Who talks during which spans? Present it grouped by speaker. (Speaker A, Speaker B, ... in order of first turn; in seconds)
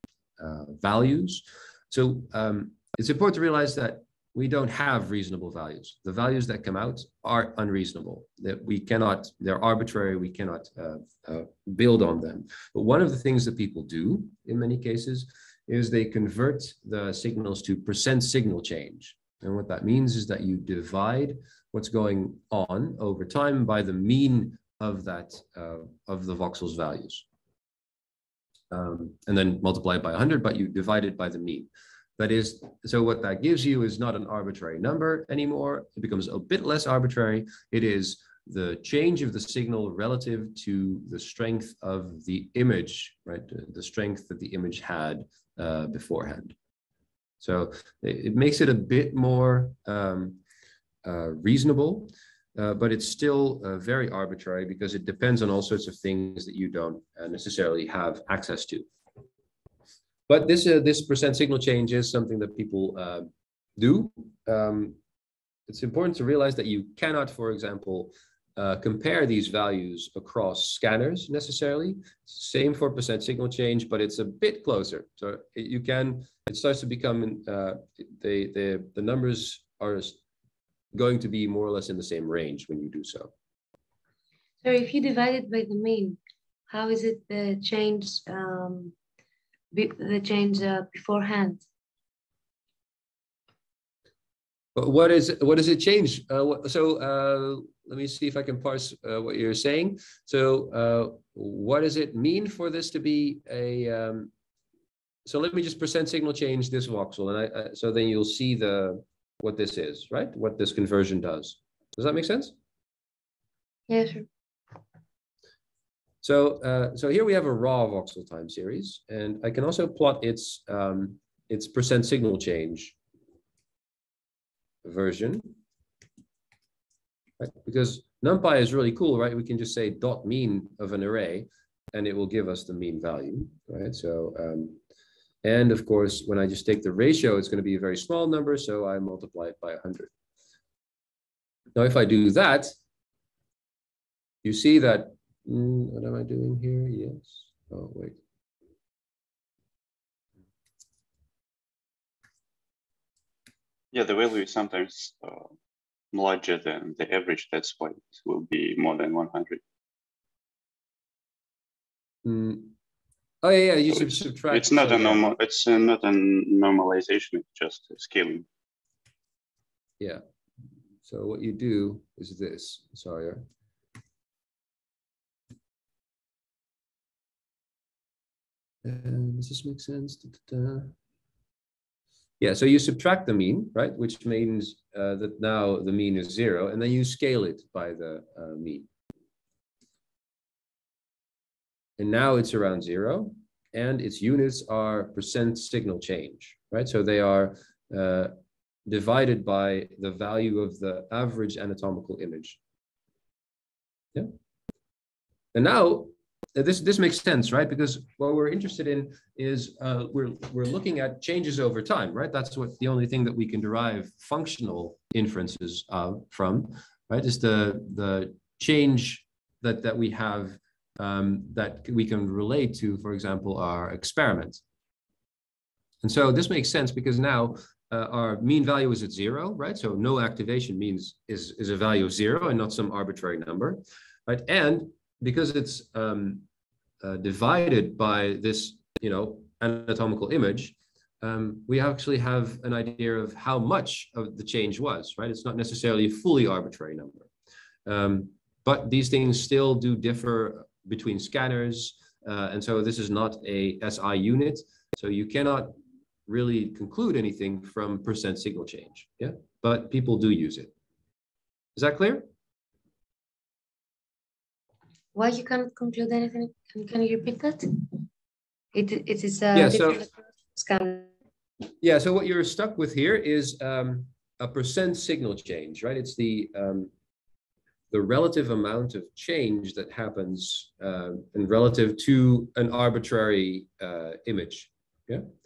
Speaker A: 0.4-27.2, 28.7-46.5, 47.4-50.4, 51.0-58.9, 60.3-65.0, 65.7-80.2, 80.9-83.3, 94.8-104.3, 105.3-112.5, 116.2-123.0, 124.8-125.6, 127.4-134.8, 135.4-140.1, 141.8-142.8, 144.4-148.2, 162.2-162.8, 163.4-165.2, 171.1-173.5, 178.8-180.9, 182.4-188.9, 192.0-198.3, 198.9-202.6, 205.5-224.6, 226.0-236.4, 237.0-247.3, 247.9-255.8, 256.3-260.7, 261.8-262.3, 269.5-270.0, 271.8-276.9, 277.9-285.2
Speaker B: 84.6-89.0, 89.7-91.6, 113.9-114.3, 265.1-267.9, 268.7-271.1
Speaker C: 153.9-155.5, 156.1-159.6, 163.9-168.5